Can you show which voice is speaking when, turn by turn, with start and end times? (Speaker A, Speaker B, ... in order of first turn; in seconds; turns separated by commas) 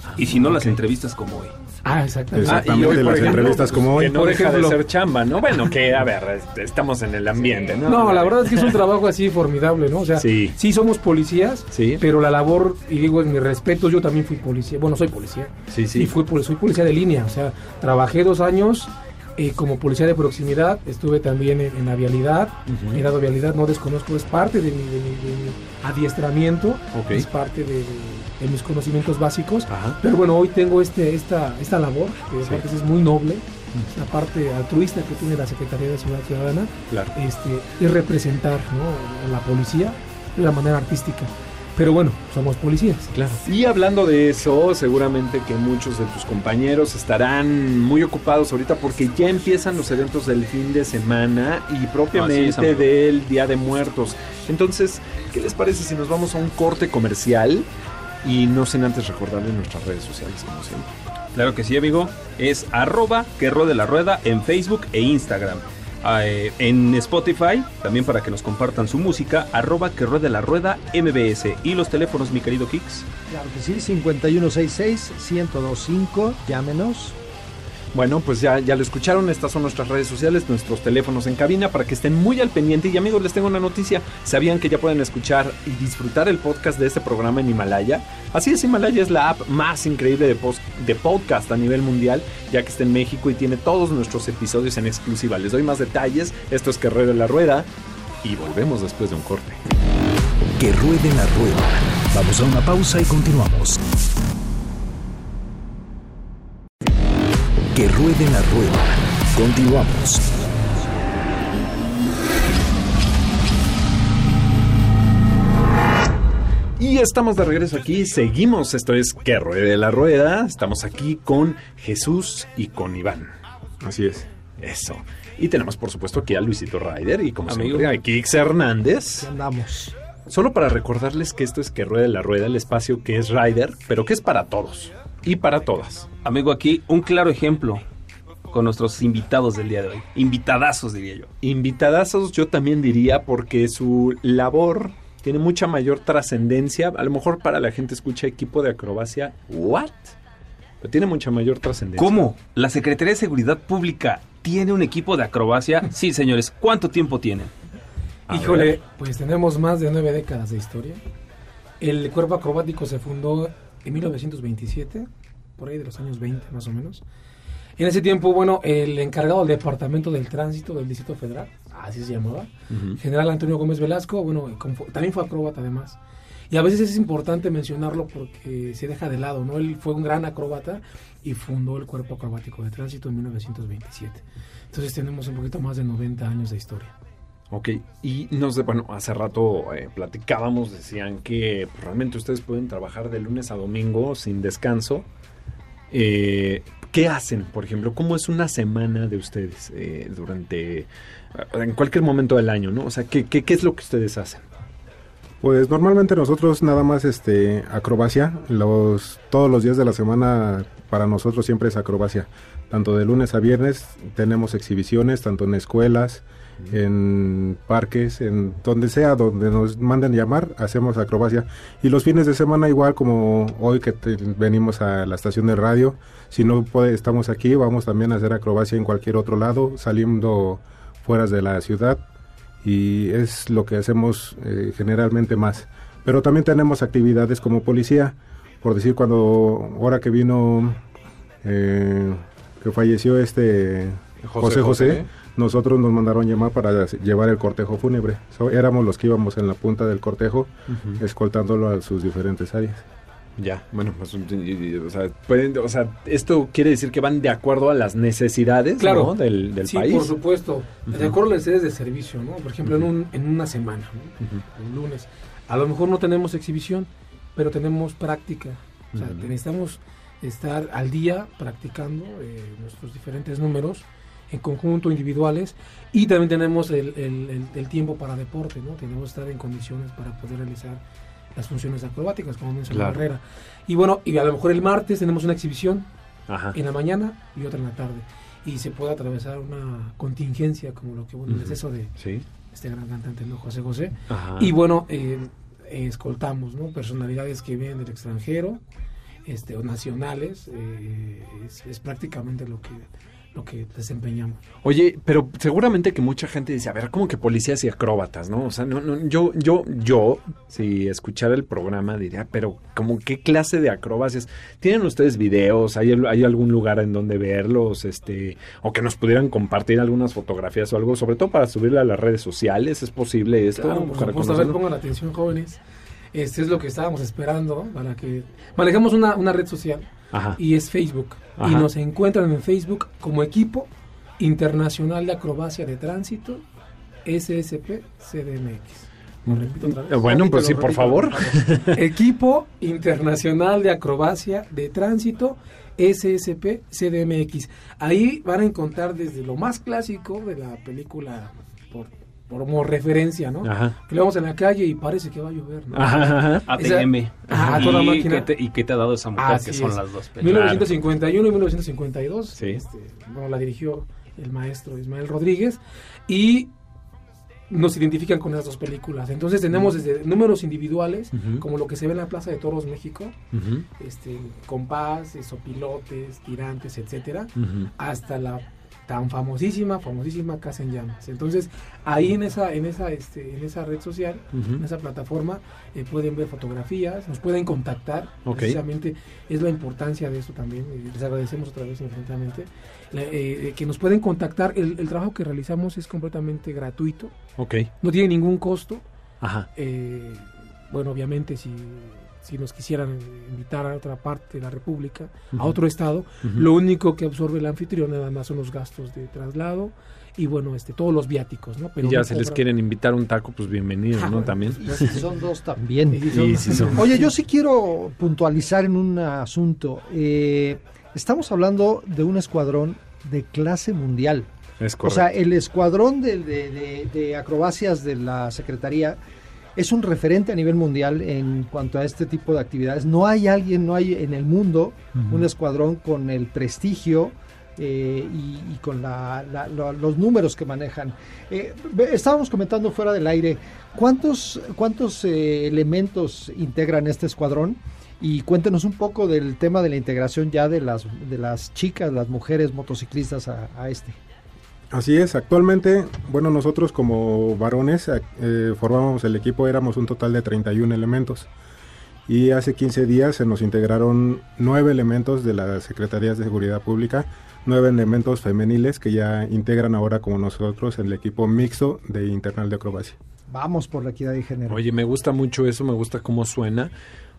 Speaker A: 0.2-1.5, Speaker B: 0.5-0.7, Speaker C: 1.8-4.8, Speaker D: 2.3-4.2, Speaker B: 2.4-8.8, Speaker C: 7.7-43.1, Speaker B: 10.2-10.6, Speaker B: 11.7-12.0, Speaker B: 15.7-16.1, Speaker B: 22.7-23.0, Speaker B: 26.9-27.2, Speaker B: 29.7-30.0, Speaker B: 43.1-57.7, Speaker A: 52.1-52.9, Speaker B: 58.2-60.9, Speaker A: 61.3-73.0, Speaker E: 73.3-77.2, Speaker B: 77.9-97.7, Speaker B: 98.2-99.6, Speaker F: 100.6-103.8, Speaker F: 107.7-110.3, Speaker B: 116.8-123.3, Speaker D: 123.8-124.3, Speaker B: 124.6-129.3, Speaker A: 127.5-127.9, Speaker E: 129.2-129.9, Speaker B: 130.3-136.1, Speaker A: 136.2-137.8, Speaker A: 138.5-141.3, Speaker B: 141.4-150.1, Speaker B: 150.8-152.3, Speaker A: 151.9-157.5, Speaker B: 158.3-158.7, Speaker C: 158.3-161.0, Speaker C: 161.8-167.0, Speaker C: 167.8-176.0, Speaker B: 172.7-173.0, Speaker C: 176.5-186.9, Speaker B: 187.5-195.1, Speaker B: 195.9-204.4, Speaker D: 205.4-232.0, Speaker D: 232.6-240.8, Speaker D: 241.4-252.8, Speaker B: 244.2-245.1, Speaker B: 250.7-251.0, Speaker B: 253.4-260.1, Speaker C: 258.8-280.8, Speaker B: 260.9-261.1, Speaker B: 268.9-269.3, Speaker C: 281.3-285.9, Speaker B: 282.7-283.0, Speaker B: 286.3-286.6, Speaker C: 286.5-291.9, Speaker B: 291.3-292.2, Speaker C: 292.5-298.6, Speaker B: 294.1-294.5, Speaker C: 299.2-304.4, Speaker B: 304.6-324.6, Speaker C: 323.5-325.6, Speaker C: 326.1-336.4, Speaker B: 330.1-330.4, Speaker B: 331.4-331.7, Speaker C: 337.1-340.1, Speaker B: 339.2-341.8, Speaker E: 340.0-341.7, Speaker C: 341.7-358.3, Speaker B: 353.4-353.8, Speaker B: 355.7-356.5, Speaker A: 356.5-360.5, Speaker B: 357.3-357.8, Speaker C: 359.2-366.5, Speaker B: 360.2-360.7, Speaker B: 362.4-362.6, Speaker C: 367.5-373.2, Speaker B: 371.1-371.4, Speaker B: 373.3-373.6, Speaker C: 373.8-397.1, Speaker B: 377.4-377.7, Speaker B: 384.3-384.6, Speaker B: 388.3-388.6, Speaker B: 397.4-397.7, Speaker C: 397.8-398.8, Speaker B: 399.2-399.5, Speaker C: 399.6-412.4, Speaker B: 411.8-414.9, Speaker C: 414.0-415.0, Speaker E: 414.6-424.3, Speaker C: 415.9-417.1, Speaker B: 416.1-416.9, Speaker B: 424.6-425.1, Speaker E: 424.8-429.0, Speaker E: 429.6-454.0, Speaker B: 434.9-435.2, Speaker D: 454.7-461.3, Speaker D: 462.1-472.9, Speaker E: 473.3-474.6, Speaker B: 474.5-476.7